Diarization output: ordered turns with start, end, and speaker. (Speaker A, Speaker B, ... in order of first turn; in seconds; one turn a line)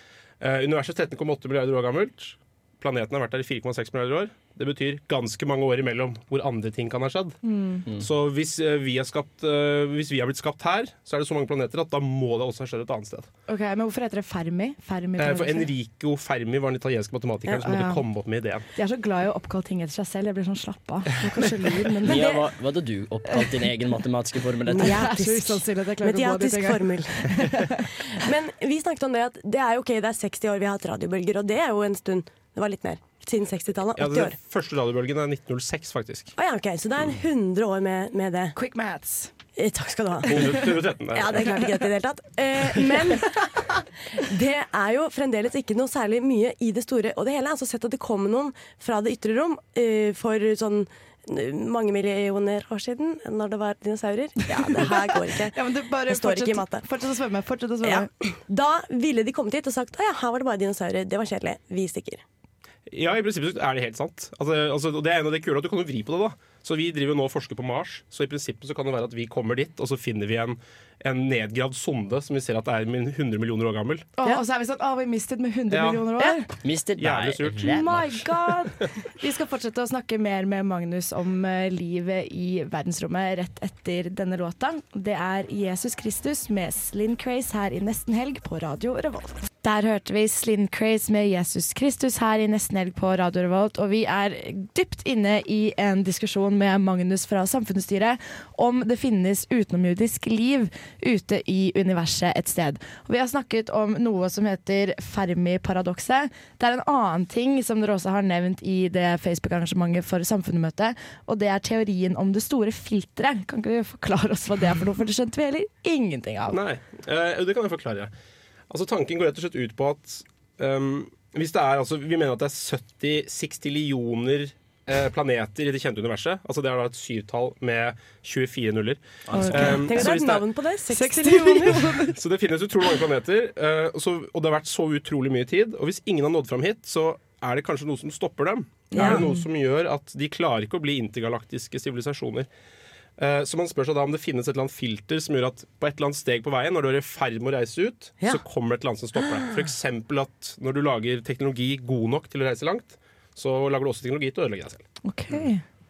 Speaker A: 0.4-7.4
Speaker B: 7.4-7.8
Speaker A: 8.0-13.3
Speaker B: 13.5-15.7
Speaker A: 15.2-18.6
Speaker B: 17.6-18.0
Speaker B: 18.7-22.4
Speaker C: 22.0-25.1
Speaker D: 24.7-34.4
Speaker B: 24.8-27.9
Speaker A: 34.0-36.3
Speaker D: 36.4-38.5
Speaker B: 38.5-39.3
Speaker D: 39.6-56.9
Speaker A: 40.2-41.4
Speaker B: 55.5-58.1
Speaker D: 57.8-62.2
Speaker A: 62.9-74.1
Speaker B: 74.2-76.5
Speaker A: 75.7-76.1
Speaker C: 76.6-78.0
Speaker A: 77.0-78.2
Speaker B: 77.6-116.6
Speaker A: 116.5-118.1
Speaker A: 118.7-130.4
Speaker C: 129.3-129.8
Speaker B: 129.3-130.1
Speaker D: 129.5-132.0
Speaker B: 130.9-132.1
Speaker A: 132.1-142.5
Speaker B: 138.9-139.4
Speaker D: 139.0-139.3
Speaker A: 143.2-154.8
Speaker B: 155.0-155.6